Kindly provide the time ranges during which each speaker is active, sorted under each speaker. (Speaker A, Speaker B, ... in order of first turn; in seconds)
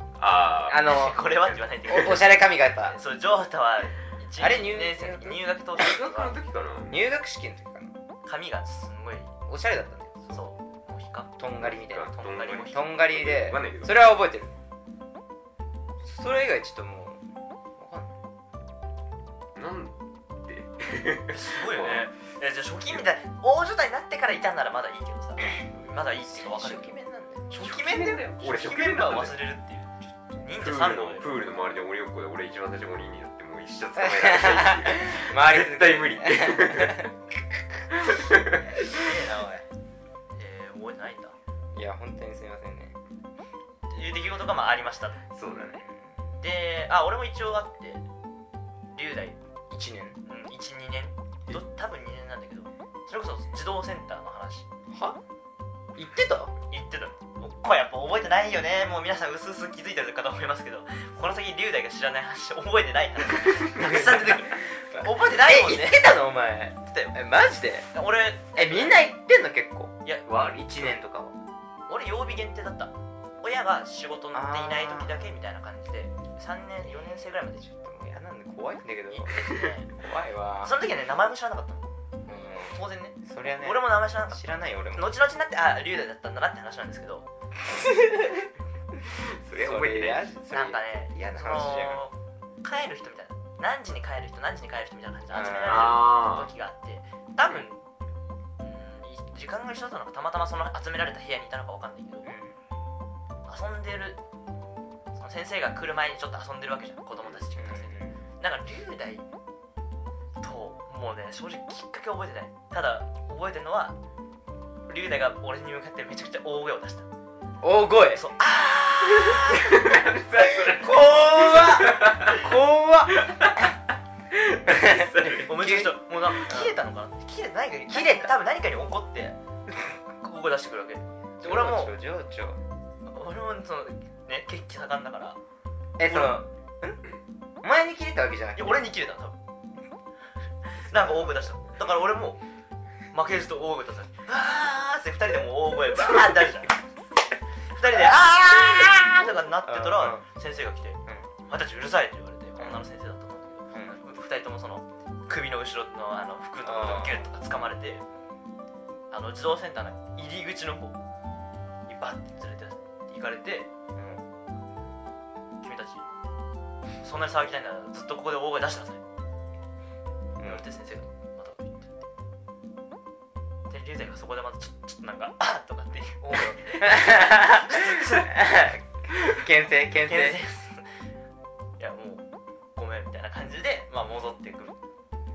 Speaker A: 0.2-0.8, 5.8-7.0, 11.6-14.1, 19.6-22.1, 27.6-29.4, 30.6-37.1, 37.9-38.8, 45.3-45.8, 70.3-71.0, 89.1-90.3, 95.7-96.5, 119.5-122.4, 123.2-123.6, 124.3-125.5
Speaker B: 0.7-1.2, 1.8-3.0, 4.4-5.4, 6.9-7.9, 9.5-10.3, 11.4-14.5, 16.0-17.2, 17.8-18.1, 26.2-27.7, 34.0-37.1, 41.7-43.0, 45.5-46.2, 49.7-50.2, 54.9-55.2, 56.0-56.5, 63.8-67.9, 68.5-70.0, 70.5-71.4, 74.3-75.3, 77.6-80.8, 82.3-85.1, 89.5-92.0, 95.3-96.0, 102.2-102.6, 107.5-108.2, 117.6-118.2, 119.2-123.7, 124.7-126.8, 127.9-128.3, 131.4-132.6, 136.0-137.0, 137.6-138.8, 140.9-141.3, 149.5-150.3, 151.1-151.3, 153.7-154.0, 156.6-157.3, 163.9-164.2, 170.4-170.7, 176.8-180.4
Speaker C: 0.8-2.4, 2.9-6.4, 8.2-9.3, 10.3-11.3, 12.2-12.9, 21.3-26.9, 27.5-31.4, 38.8-39.7, 40.4-41.4, 43.9-45.2, 46.4-48.0, 49.0-49.4, 50.3-54.7, 56.7-66.1, 66.9-67.2, 67.9-69.0, 71.9-77.7, 79.1-79.9, 80.6-81.9, 82.6-84.4, 84.9-87.3, 90.5-97.9, 98.6-102.3, 103.5-104.2, 105.2-109.2, 110.4-114.0, 114.9-117.1, 118.1-120.0, 125.4-129.4, 130.1-132.0, 133.1-135.4, 136.0-136.4, 138.6-139.4, 140.8-142.4, 143.1-146.8, 147.7-158.0, 159.1-161.0, 161.9-163.7, 165.6-166.1, 167.0-169.0, 170.4-172.0, 173.7-178.3, 179.9-181.0, 181.8-184.8